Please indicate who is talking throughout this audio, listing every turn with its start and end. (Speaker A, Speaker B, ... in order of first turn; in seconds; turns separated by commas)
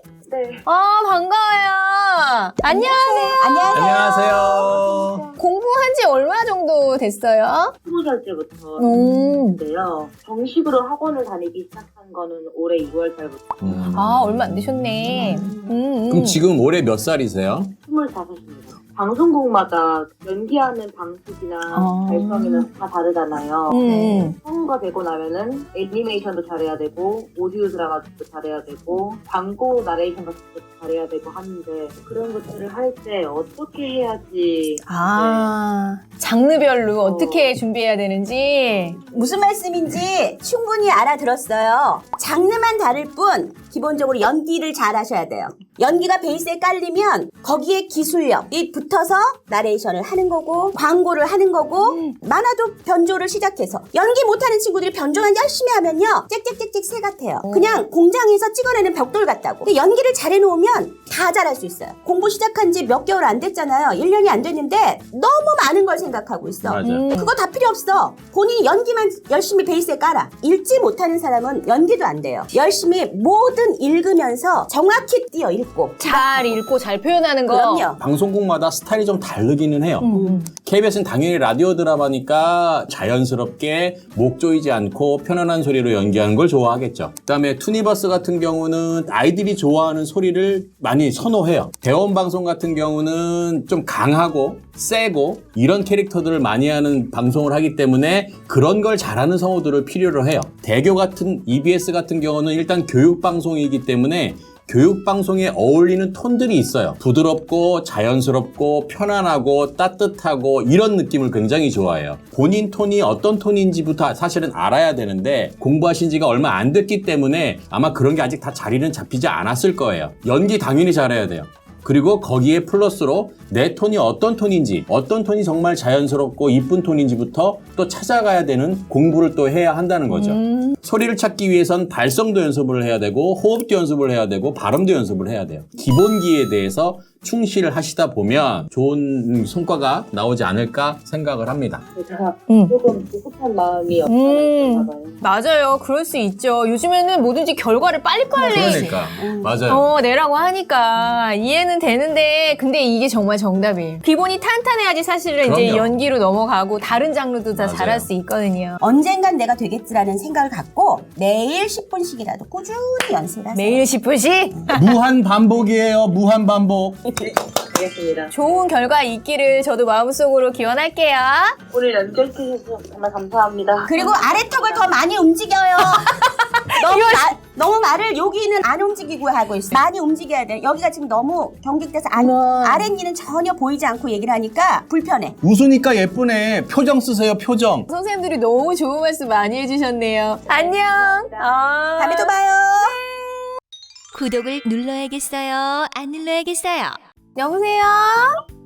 Speaker A: 0.3-0.6, Speaker B: 0.7-4.0, Speaker C: 2.7-4.7, Speaker D: 3.7-5.2, Speaker A: 4.6-5.3, Speaker B: 5.4-7.7, Speaker A: 7.8-13.9, Speaker B: 8.8-9.6, Speaker D: 13.6-15.2, Speaker B: 13.9-16.4, Speaker C: 15.2-15.7, Speaker D: 16.1-17.7, Speaker A: 17.8-35.5, Speaker B: 21.7-22.7, Speaker B: 23.7-24.4, Speaker C: 23.9-24.3, Speaker B: 34.9-39.0, Speaker A: 37.0-37.5, Speaker C: 39.1-76.6, Speaker B: 51.8-52.1, Speaker B: 57.4-57.8, Speaker D: 66.6-67.1, Speaker B: 66.8-67.3, Speaker B: 76.0-77.9, Speaker C: 77.5-78.0, Speaker D: 78.0-141.8, Speaker B: 80.0-80.5, Speaker C: 80.1-80.4, Speaker B: 130.1-130.8, Speaker A: 141.9-145.3, Speaker B: 142.5-142.7, Speaker B: 144.1-149.1, Speaker D: 148.3-149.9, Speaker C: 149.2-149.6, Speaker B: 149.7-158.8, Speaker D: 155.4-155.9, Speaker D: 157.6-158.1, Speaker C: 158.8-163.8, Speaker B: 163.5-164.9, Speaker D: 164.8-167.1, Speaker A: 167.3-168.3, Speaker B: 168.3-171.6, Speaker A: 171.7-174.9, Speaker C: 173.8-176.2, Speaker B: 176.1-177.2, Speaker C: 176.8-185.4, Speaker B: 182.2-182.9, Speaker D: 185.4-187.9, Speaker B: 187.9-193.5, Speaker C: 192.0-193.0, Speaker E: 194.1-196.9, Speaker B: 197.3-198.4